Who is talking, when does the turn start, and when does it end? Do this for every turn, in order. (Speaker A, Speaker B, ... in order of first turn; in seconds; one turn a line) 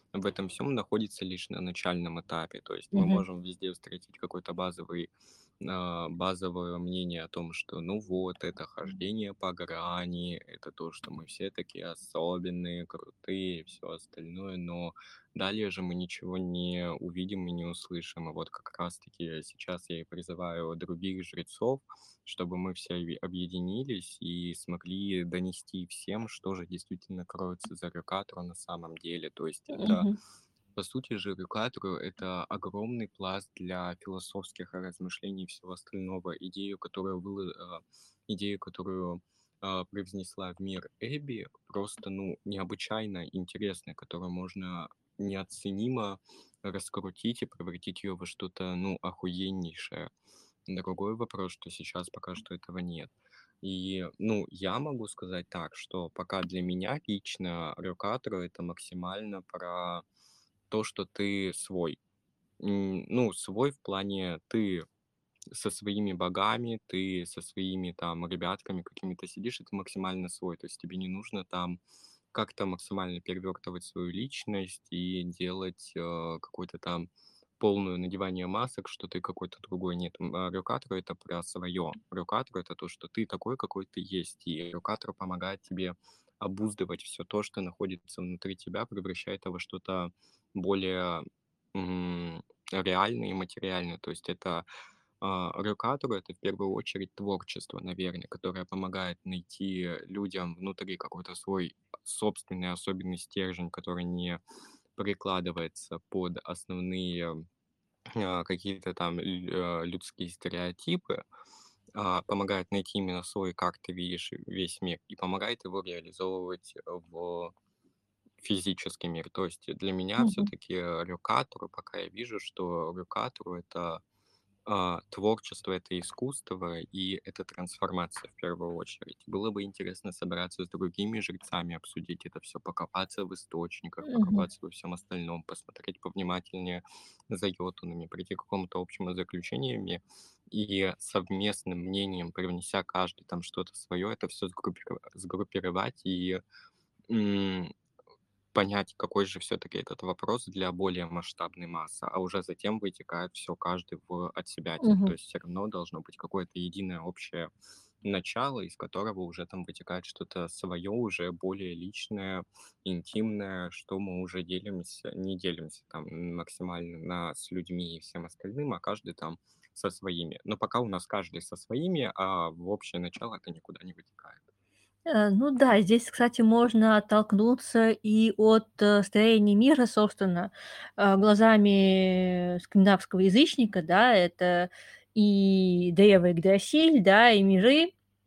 Speaker A: 0.1-5.1
Speaker B: 2.9-3.2
Speaker A: 5.6-30.1
Speaker B: 29.7-30.1
Speaker A: 30.8-50.1
Speaker A: 50.7-60.0
Speaker A: 60.7-62.0
Speaker A: 62.6-64.8
Speaker A: 65.5-71.8
Speaker A: 72.3-94.7
Speaker A: 95.2-104.4
Speaker A: 105.0-107.4
Speaker A: 108.1-111.2
Speaker A: 111.9-117.5
Speaker A: 118.4-124.0
Speaker B: 120.2-120.5
Speaker A: 124.7-146.4
Speaker B: 134.0-134.5
Speaker A: 147.1-147.7
Speaker A: 148.5-157.5
Speaker B: 154.8-155.1
Speaker A: 158.0-174.4
Speaker B: 175.1-187.9